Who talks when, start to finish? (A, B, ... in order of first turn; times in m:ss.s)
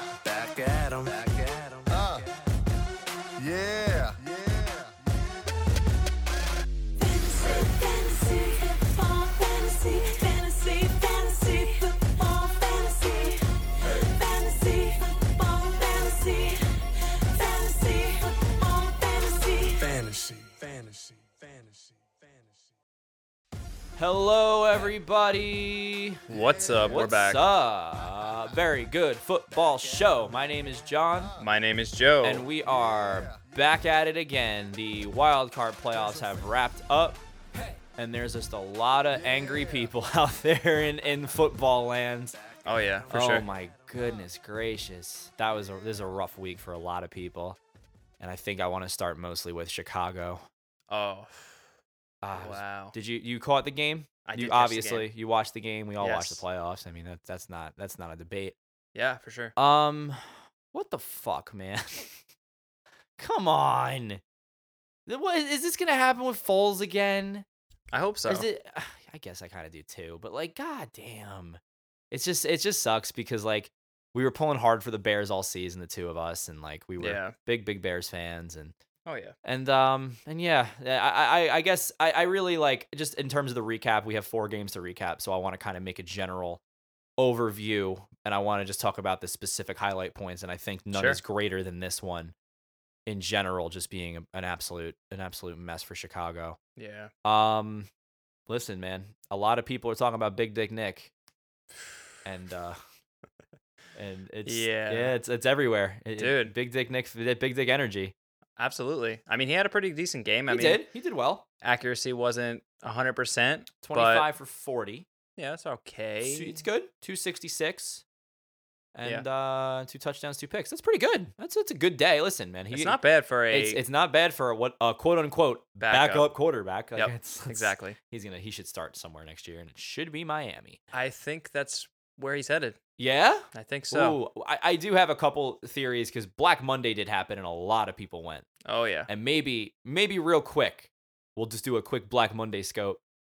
0:00.2-0:02.4 A
0:01.9-0:02.3 B
0:03.4-0:05.0 B
0:07.0-0:19.9 C
0:19.8-0:22.8 A
0:24.0-0:26.2 D
0:26.3-0:27.4 E
0:26.3-0:26.9 B
0:26.9-0:31.4 D
0:30.0-0:30.5 A
0:31.4-0:32.5 E
0:32.2-0:42.4 D
0:32.6-0:33.5 B
0:36.2-0:36.4 A
0:42.6-0:43.5 E
0:42.7-0:44.3 A
0:43.1-0:47.6 D
0:48.2-0:50.5 D
0:50.9-0:51.6 E
0:52.2-0:58.6 D
0:52.3-0:53.0 E
0:54.2-0:55.1 E
0:56.0-0:56.4 E
0:59.0-0:59.5 E
0:59.6-1:02.2 D
1:03.2-1:04.2 D
1:05.1-1:07.5 D
1:07.9-1:08.5 E
1:08.3-1:11.6 D
1:12.1-1:18.7 D
1:17.0-1:17.3 E
1:19.1-1:19.3 E
1:19.4-1:26.6 D
1:27.2-1:32.3 D
1:30.9-1:31.2 E
1:33.1-1:36.6 D
1:36.8-1:37.1 E
1:37.2-1:37.9 D
1:38.5-1:41.1 D
1:42.2-1:42.8 D
1:44.0-1:48.1 D
1:44.4-1:45.2 E
1:46.2-1:46.5 E
1:48.6-1:50.9 E
1:50.5-1:51.4 D
1:51.6-1:54.3 E
1:53.8-1:55.1 D
1:55.4-1:56.6 E
1:56.2-1:58.0 D
1:59.0-2:03.0 D
2:02.7-2:03.8 E
2:03.5-2:10.8 D
2:05.8-2:06.2 E
2:07.0-2:08.0 E
2:10.9-2:12.8 E
2:13.0-2:18.5 D
2:13.5-2:14.2 E
2:18.6-2:19.1 E
2:19.1-2:23.0 D